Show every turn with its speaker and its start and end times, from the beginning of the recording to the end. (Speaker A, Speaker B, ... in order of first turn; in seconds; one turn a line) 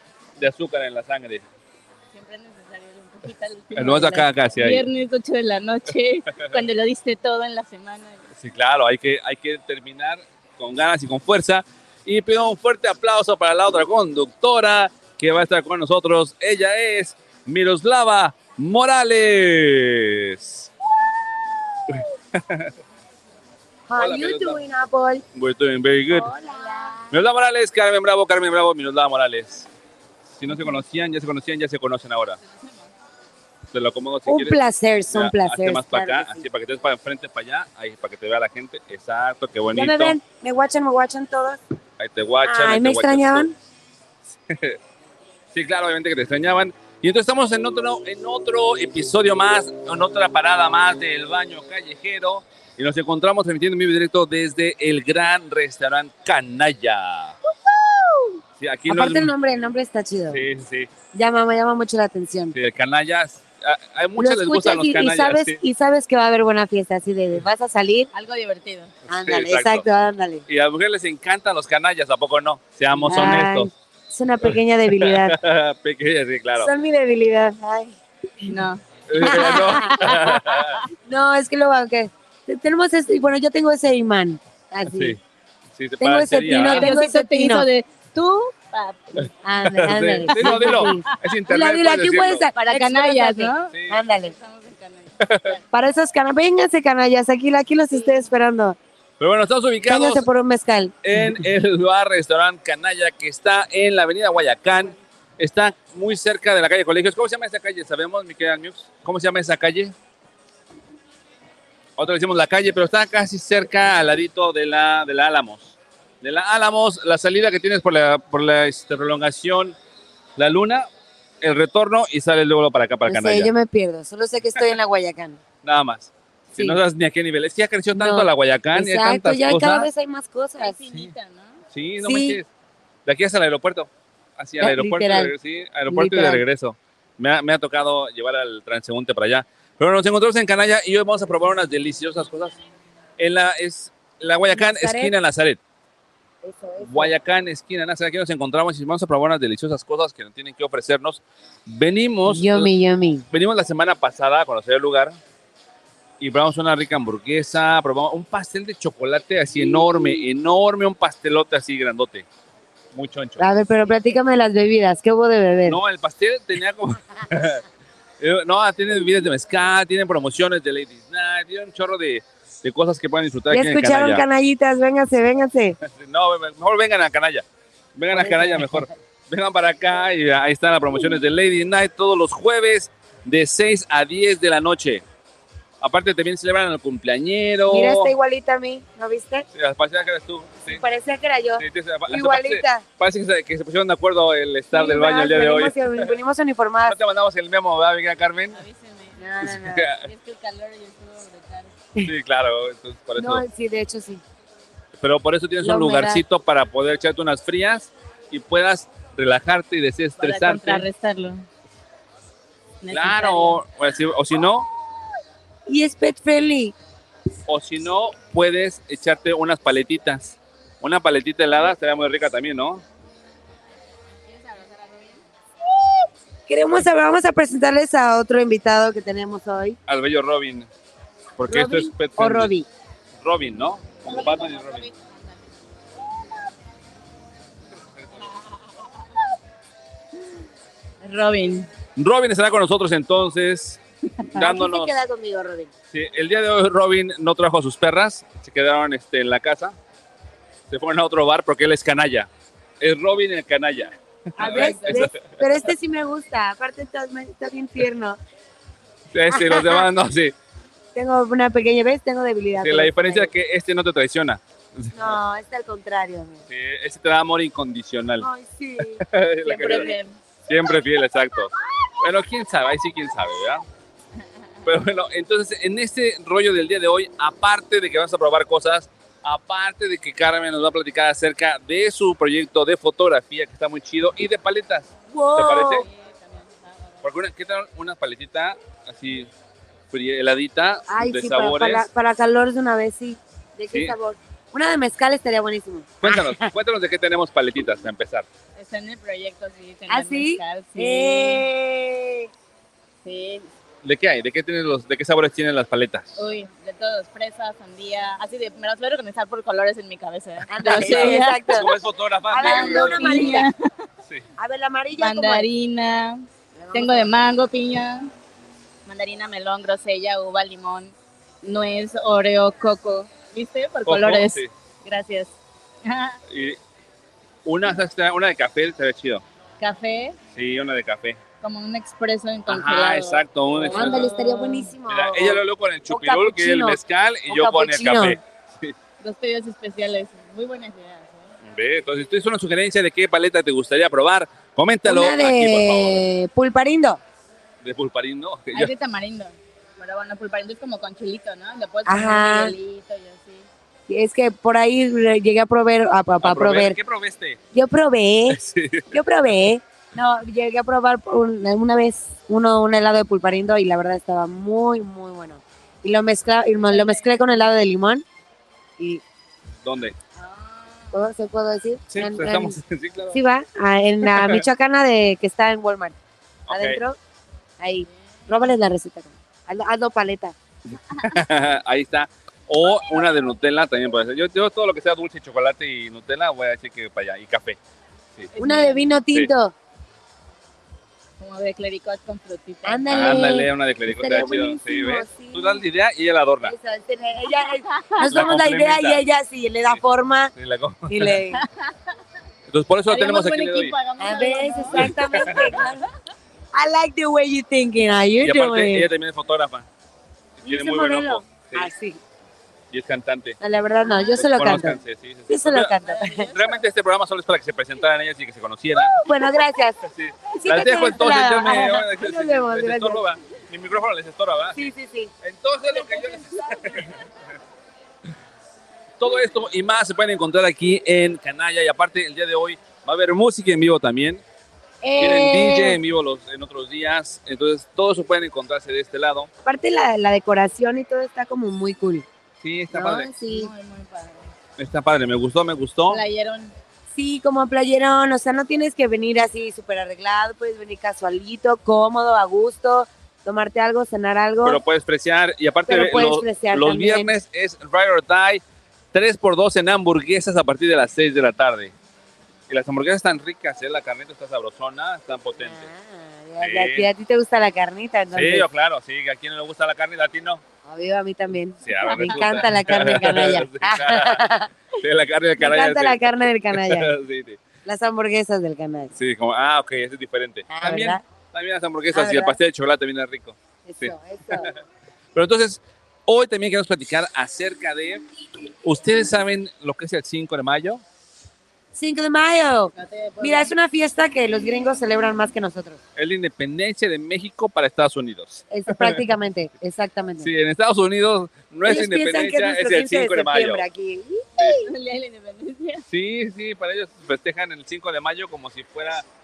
Speaker A: 0.4-1.4
Speaker B: 2.1-8.2
Speaker A: 3.7-4.9
Speaker A: 8.4-20.7
Speaker A: 21.9-22.7
Speaker C: 23.9-25.2
Speaker A: 24.0-24.6
Speaker A: 25.3-26.3
Speaker C: 26.1-27.1
Speaker A: 27.1-29.7
Speaker A: 30.3-32.4
Speaker B: 32.4-32.9
Speaker A: 33.7-34.6
Speaker C: 34.2-36.5
Speaker A: 35.1-40.1
Speaker C: 39.7-41.6
Speaker A: 42.0-43.5
Speaker C: 42.4-43.5
Speaker A: 44.5-44.8
Speaker A: 45.5-57.4
Speaker C: 57.7-58.3
Speaker A: 58.6-59.3
Speaker C: 58.9-60.4
Speaker A: 60.3-60.9
Speaker C: 61.1-62.5
Speaker A: 62.5-65.6
Speaker C: 64.2-68.1
Speaker B: 68.1-68.9
Speaker A: 69.1-69.8
Speaker C: 69.1-70.5
Speaker A: 70.5-73.7
Speaker C: 73.0-75.3
Speaker A: 74.9-76.7
Speaker C: 76.6-78.6
Speaker B: 78.5-78.8
Speaker A: 79.1-80.8
Speaker C: 79.2-79.9
Speaker B: 79.8-80.8
Speaker C: 81.0-85.2
Speaker A: 84.9-85.2
Speaker A: 85.8-86.9
Speaker C: 86.0-87.7
Speaker B: 86.7-89.2
Speaker C: 89.4-94.3
Speaker A: 89.6-92.5
Speaker B: 90.3-91.0
Speaker B: 92.5-95.6
Speaker A: 93.7-94.0
Speaker A: 95.2-95.5
Speaker C: 95.7-98.8
Speaker B: 97.9-98.2
Speaker A: 99.2-100.2
Speaker C: 99.8-100.9
Speaker A: 101.0-109.9
Speaker A: 112.0-119.8
Speaker A: 120.4-120.9
Speaker A: 121.4-123.5
Speaker C: 123.0-125.4
Speaker A: 125.6-129.9
Speaker C: 127.9-130.8
Speaker B: 130.6-131.6
Speaker A: 131.7-132.5
Speaker C: 132.0-132.4
Speaker A: 133.1-142.6
Speaker C: 134.6-135.3
Speaker C: 135.9-136.4
Speaker A: 143.2-145.6
Speaker C: 144.5-145.1
Speaker C: 146.4-147.1
Speaker A: 146.8-152.7
Speaker C: 152.2-153.2
Speaker A: 153.3-155.2
Speaker A: 156.2-162.3
Speaker A: 162.9-163.4
Speaker C: 163.4-165.8
Speaker A: 165.7-167.6
Speaker A: 168.2-174.2
Speaker C: 173.5-175.8
Speaker A: 175.8-177.4
Speaker A: 177.9-185.0
Speaker C: 178.1-178.9
Speaker A: 185.8-188.1
Speaker C: 187.7-189.4
Speaker A: 189.5-190.8
Speaker C: 190.7-192.8
Speaker A: 191.6-196.1
Speaker C: 194.7-197.0
Speaker A: 196.8-198.6
Speaker B: 198.5-199.2
Speaker C: 199.2-199.9
Speaker A: 199.4-200.1
Speaker B: 200.0-201.7
Speaker A: 202.0-203.4
Speaker C: 203.2-204.2
Speaker A: 205.0-210.9
Speaker C: 205.6-206.2
Speaker B: 210.2-211.4
Speaker B: 212.8-213.6
Speaker A: 212.9-214.7
Speaker C: 215.7-216.7
Speaker A: 217.5-222.8
Speaker B: 224.2-225.2
Speaker C: 225.8-229.8
Speaker A: 229.9-230.7
Speaker A: 231.4-232.5
Speaker C: 231.4-232.7
Speaker A: 233.2-234.9
Speaker B: 234.0-235.4
Speaker A: 238.0-238.3
Speaker B: 241.0-241.7
Speaker A: 241.9-243.8
Speaker A: 244.3-244.9
Speaker C: 244.3-245.7
Speaker A: 245.9-249.7
Speaker A: 250.7-252.3
Speaker A: 252.8-255.3
Speaker C: 254.4-258.2
Speaker B: 254.4-255.1
Speaker A: 259.1-260.3
Speaker C: 259.3-259.9
Speaker C: 260.9-263.3
Speaker A: 262.6-265.1
Speaker C: 264.9-266.4
Speaker A: 266.5-268.3
Speaker C: 268.2-269.0
Speaker A: 268.8-269.9
Speaker B: 269.4-270.1
Speaker A: 270.5-273.6
Speaker A: 274.6-285.9
Speaker C: 285.1-285.9
Speaker B: 285.6-287.1
Speaker A: 287.0-289.3
Speaker A: 289.9-291.9
Speaker C: 290.9-296.5
Speaker A: 296.0-298.3
Speaker B: 298.6-301.4
Speaker C: 299.9-302.3
Speaker B: 303.0-303.5
Speaker A: 303.8-306.2
Speaker B: 306.2-311.6
Speaker C: 310.5-311.7
Speaker A: 310.6-313.5
Speaker C: 312.3-313.5
Speaker B: 312.4-313.5
Speaker C: 314.4-315.5
Speaker B: 315.0-318.1
Speaker C: 316.6-317.1
Speaker B: 318.9-325.3
Speaker A: 323.9-324.5
Speaker B: 325.8-326.2
Speaker A: 326.3-326.6
Speaker A: 327.4-329.2
Speaker B: 329.6-330.2
Speaker A: 330.3-331.2
Speaker B: 331.4-334.7
Speaker A: 332.5-334.1
Speaker C: 333.7-338.2
Speaker A: 334.9-338.7
Speaker B: 339.0-341.3
Speaker A: 341.4-346.0
Speaker C: 344.8-347.0
Speaker A: 347.6-348.7
Speaker B: 348.5-353.5
Speaker C: 351.9-352.5
Speaker C: 353.9-356.8
Speaker A: 356.2-357.4
Speaker C: 357.5-358.4
Speaker A: 358.3-359.0
Speaker C: 358.9-368.0
Speaker B: 366.6-367.1
Speaker A: 369.6-369.9
Speaker B: 370.1-371.0
Speaker C: 370.9-372.6
Speaker A: 371.9-373.2
Speaker C: 373.1-376.0
Speaker A: 374.1-374.4
Speaker A: 376.5-376.8
Speaker C: 376.5-377.0
Speaker C: 377.6-380.4
Speaker B: 377.8-378.3
Speaker A: 381.0-387.6
Speaker B: 388.3-388.9
Speaker C: 388.4-389.5
Speaker B: 391.2-393.4
Speaker C: 392.6-395.6
Speaker A: 392.9-396.5
Speaker C: 396.4-400.3
Speaker B: 397.7-398.1
Speaker A: 398.1-399.0
Speaker A: 400.4-401.2
Speaker C: 400.9-401.4
Speaker B: 401.3-401.7
Speaker A: 402.5-403.8
Speaker B: 402.9-405.7
Speaker C: 404.0-405.9
Speaker A: 404.7-405.5
Speaker C: 406.5-408.9
Speaker A: 408.2-409.7
Speaker A: 410.4-411.7
Speaker C: 410.4-412.0
Speaker A: 412.7-413.4
Speaker C: 413.4-416.2
Speaker B: 413.8-414.2
Speaker A: 414.1-415.7
Speaker B: 415.8-416.6
Speaker A: 416.3-419.0
Speaker C: 418.7-419.8
Speaker A: 419.9-424.6
Speaker C: 420.4-423.0
Speaker C: 424.5-425.1
Speaker A: 425.2-426.9
Speaker A: 429.0-434.2
Speaker C: 434.8-435.8
Speaker A: 435.0-439.3
Speaker C: 439.4-442.1
Speaker A: 442.4-443.1
Speaker C: 442.7-443.5
Speaker B: 443.3-444.3
Speaker A: 444.6-446.0
Speaker B: 445.9-446.5
Speaker C: 446.9-454.6
Speaker A: 454.4-458.4
Speaker C: 455.7-457.1
Speaker A: 458.9-461.7
Speaker A: 462.5-465.7
Speaker C: 465.4-468.5
Speaker A: 466.4-466.9
Speaker A: 468.1-470.4
Speaker C: 470.6-474.5
Speaker A: 471.6-474.2
Speaker B: 471.8-472.4
Speaker A: 474.8-477.4
Speaker C: 475.4-476.9
Speaker C: 477.6-478.9
Speaker A: 479.0-484.6
Speaker C: 480.5-481.0
Speaker C: 481.9-482.4
Speaker C: 483.6-484.5
Speaker A: 485.1-488.0
Speaker A: 488.6-490.8
Speaker C: 491.7-495.8
Speaker B: 492.7-493.5
Speaker A: 495.9-499.0
Speaker C: 498.5-500.3
Speaker A: 500.2-503.6
Speaker C: 501.6-504.6
Speaker B: 504.4-505.8
Speaker A: 505.9-509.0